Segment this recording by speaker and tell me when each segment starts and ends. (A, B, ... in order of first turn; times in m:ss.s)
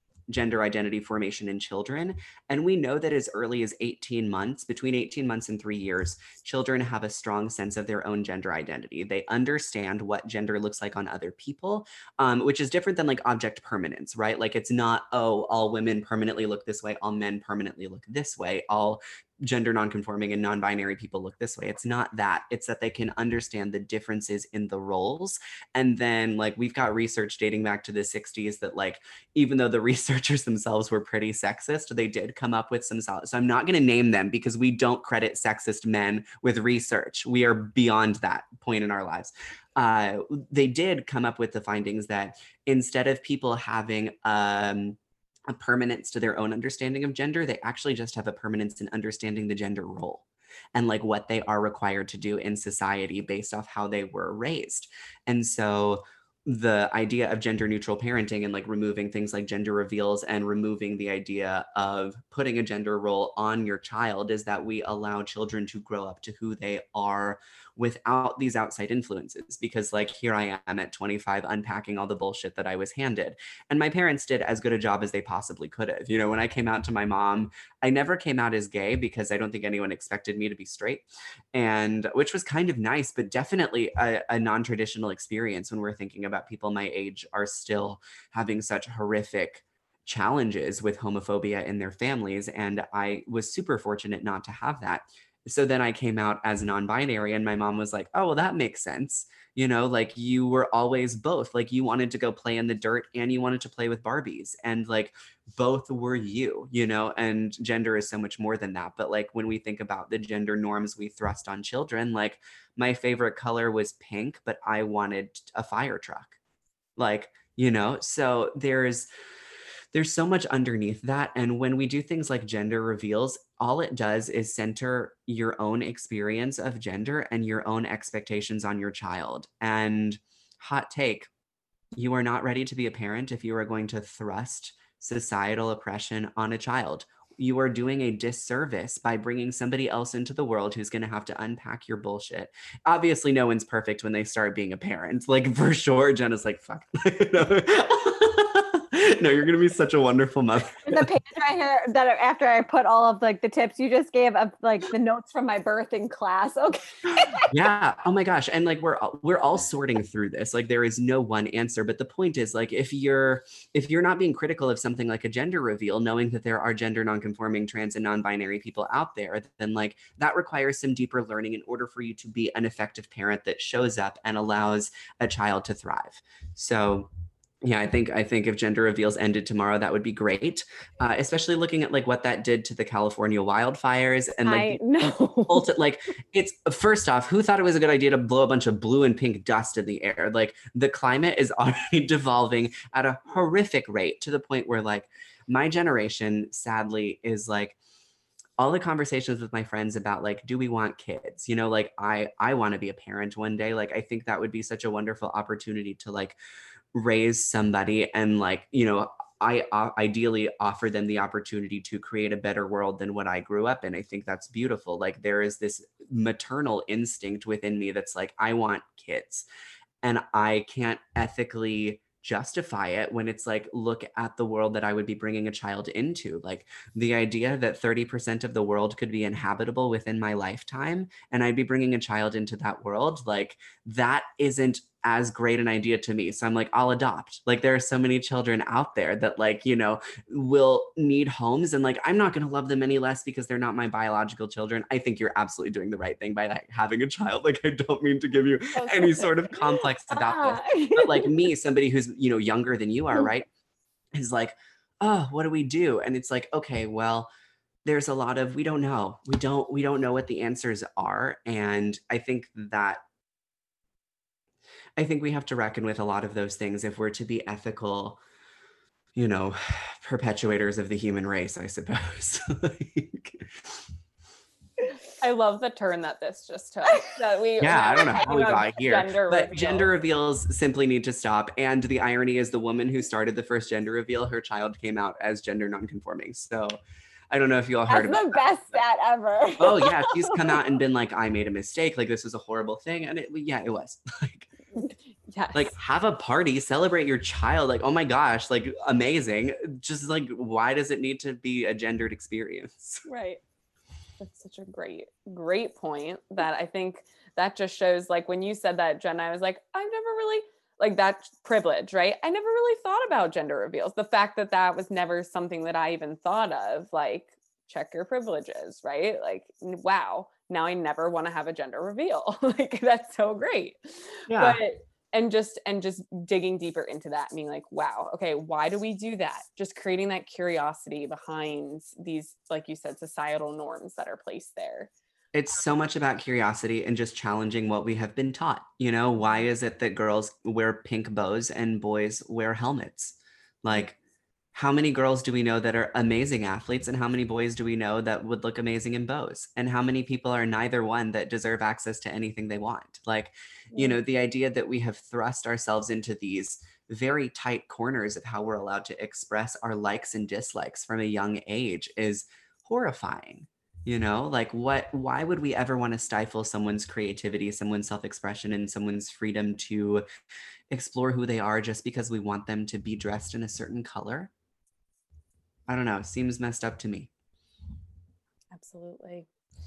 0:00.3-1:56.4 A
1:57.0-1:59.1 A
1:59.9-2:11.3 A
2:11.9-2:31.1 A
2:30.9-2:37.5 B
2:37.4-2:57.1 A
2:57.6-3:17.8 A
3:04.4-3:05.7 B
3:18.6-3:26.4 A
3:26.9-3:39.5 A
3:40.0-4:13.5 A
4:08.7-4:11.4 B
4:14.2-4:17.3 A
4:17.8-4:23.0 A
4:25.0-4:28.2 A
4:29.2-4:33.8 A
4:35.1-4:39.9 C
4:37.6-4:46.8 A
4:47.3-4:48.6 A
4:47.9-4:50.6 B
4:49.6-4:54.5 A
4:55.3-4:55.7 C
4:55.5-5:03.0 A
5:03.1-5:03.4 C
5:04.2-5:34.9 C
5:24.3-5:24.6 A
5:35.3-5:44.0 A
5:39.2-5:39.4 C
5:44.5-6:10.0 A
6:10.7-6:14.3 A
6:15.7-6:17.1 A
6:18.5-6:19.3 C